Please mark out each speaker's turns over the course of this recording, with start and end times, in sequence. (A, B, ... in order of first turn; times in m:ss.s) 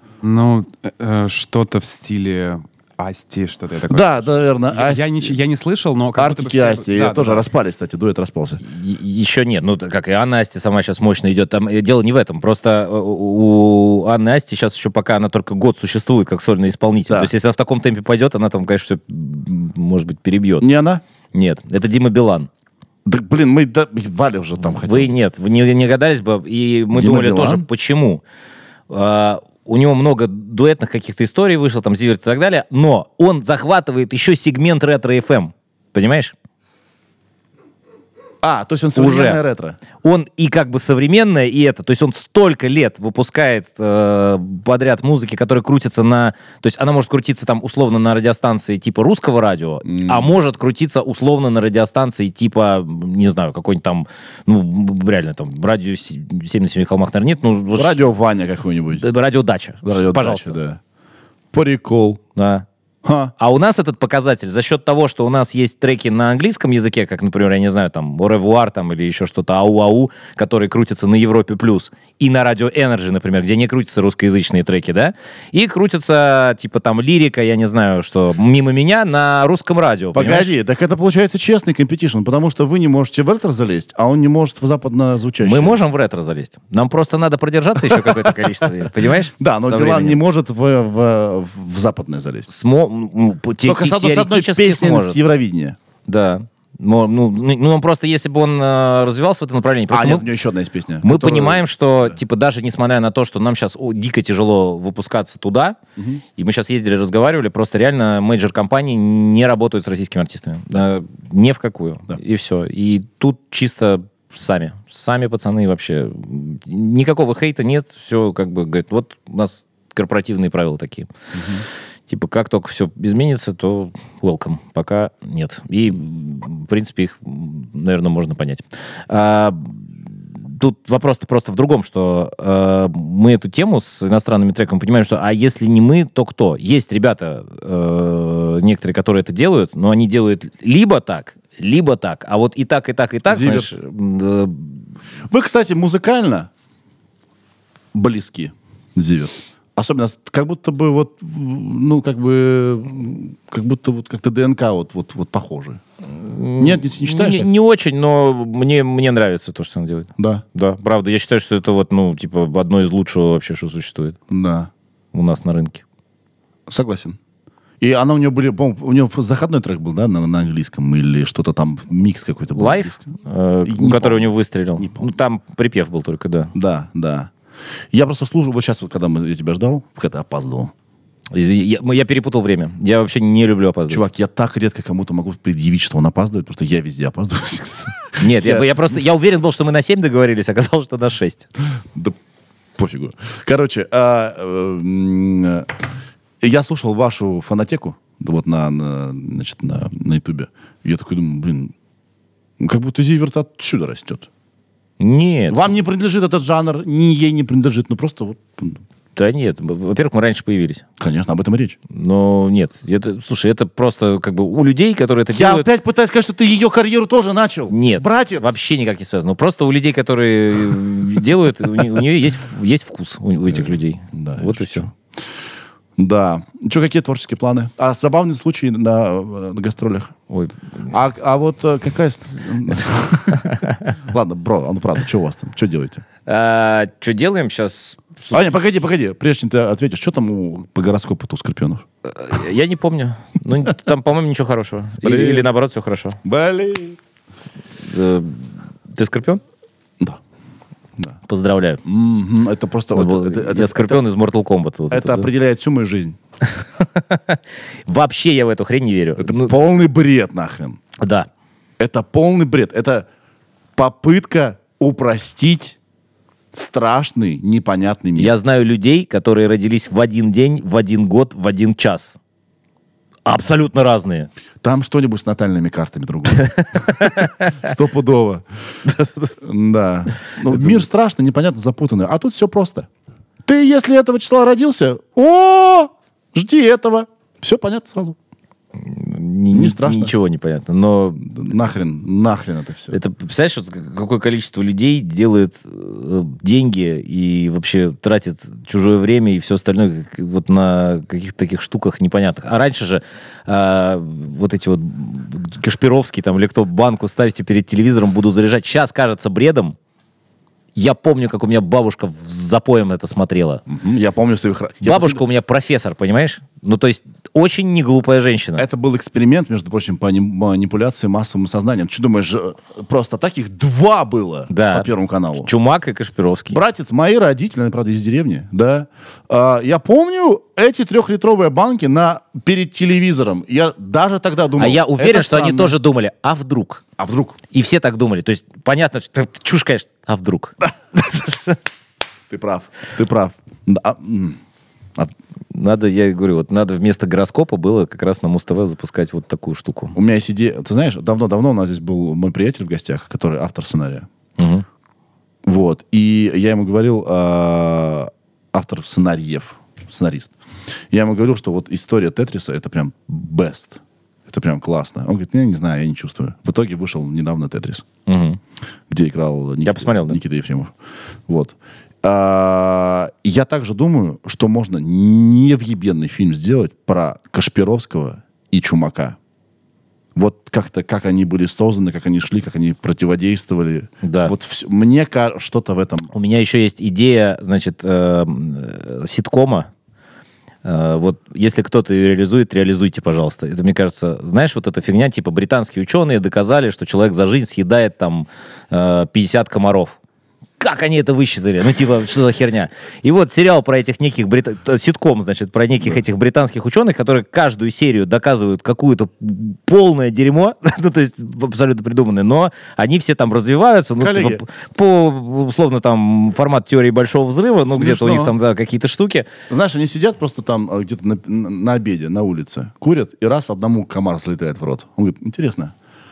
0:00.2-0:07.4 A
0:03.8-0:05.4 B
0:06.1-0:08.6 B
0:08.6-0:20.7 C
0:20.6-0:21.0 B
0:21.3-0:22.5 C
0:23.0-0:25.1 B
0:24.8-0:28.2 C
0:26.9-0:27.6 B
0:28.9-0:36.3 C
0:38.4-0:39.8 B
0:38.9-0:39.4 C
0:40.0-0:58.0 C
0:49.8-0:50.3 B
0:57.7-0:59.0 B
0:58.9-1:00.6 C
0:59.8-1:00.8 B
1:01.5-1:02.2 B
1:02.4-1:02.6 C
1:03.0-1:03.3 B
1:03.4-1:20.5 C
1:20.1-1:25.8 B
1:25.4-1:30.2 C
1:27.9-1:28.4 B
1:29.4-1:32.5 B
1:32.5-1:35.2 C
1:33.6-1:35.8 B
1:36.1-1:40.3 C
1:39.9-1:41.6 B
1:41.0-1:45.8 C
1:46.4-2:01.1 C
2:01.3-2:01.6 B
2:02.1-2:24.8 C
2:23.3-2:23.7 B
2:25.3-2:26.5 B
2:27.9-2:35.8 B
2:36.1-2:44.2 C
2:36.6-2:37.5 B
2:40.2-2:40.4 B
2:44.3-2:44.7 B
2:45.1-2:45.8 C
2:46.7-2:47.2 B
2:47.8-2:53.1 B
2:52.5-2:56.5 C
2:53.6-2:55.1 B
2:56.5-2:57.3 B
2:57.9-3:00.7 B
3:01.3-3:04.0 C
3:03.9-3:09.0 B
3:08.2-3:11.5 C
3:12.8-3:15.8 B
3:16.4-3:21.7 B
3:22.6-3:24.3 B
3:25.0-3:25.7 C
3:25.5-3:28.8 B
3:29.1-3:30.8 C
3:31.0-3:31.8 B
3:31.9-3:35.7 C
3:35.3-3:38.5 B
3:37.7-3:44.9 C
3:43.5-3:45.2 B
3:46.0-3:50.1 B
3:50.3-3:50.9 C
3:50.9-3:56.0 B
3:53.4-3:53.9 C
3:56.2-3:58.4 C
3:58.3-4:01.8 B
4:02.0-4:06.2 C
4:05.0-4:05.5 B
4:06.2-4:07.0 B
4:07.8-4:09.4 C
4:11.3-4:11.8 C
4:11.8-4:14.0 B
4:12.9-4:15.3 C
4:14.9-4:16.2 B
4:16.6-4:19.5 C
4:19.2-4:20.8 B
4:21.0-4:21.3 C
4:21.8-4:23.1 B
4:23.8-4:25.8 B
4:26.5-4:28.3 B
4:28.2-4:32.2 C
4:33.2-4:34.3 C
4:34.6-4:38.4 B
4:36.4-4:37.6 C
4:38.8-4:39.3 C
4:39.4-4:42.9 B
4:43.4-4:48.2 B
4:48.8-4:51.3 C
4:49.5-4:50.1 B
4:51.2-4:53.0 B
4:52.9-5:09.8 C
5:10.7-5:13.6 C
5:13.7-5:15.2 B
5:14.8-5:18.6 C
5:18.6-5:25.5 B
5:24.5-5:26.6 C
5:26.5-5:35.8 B
5:34.6-5:36.8 C
5:37.0-5:37.4 B
5:37.5-5:41.6 C
5:42.3-5:44.4 B
5:45.5-5:49.9 C
5:49.9-5:54.1 B
5:54.4-5:54.6 C
5:55.4-6:00.3 B
6:00.9-6:07.8 B
6:08.0-6:08.4 C
6:08.9-6:10.7 B
6:09.6-6:10.2 C
6:11.3-6:19.2 B
6:20.1-6:26.1 B
6:24.0-6:24.3 C
6:26.1-6:29.7 C
6:30.6-6:40.0 C
6:40.6-6:59.3 C
6:54.0-6:54.4 B
6:57.7-6:58.3 B
6:59.5-7:05.7 B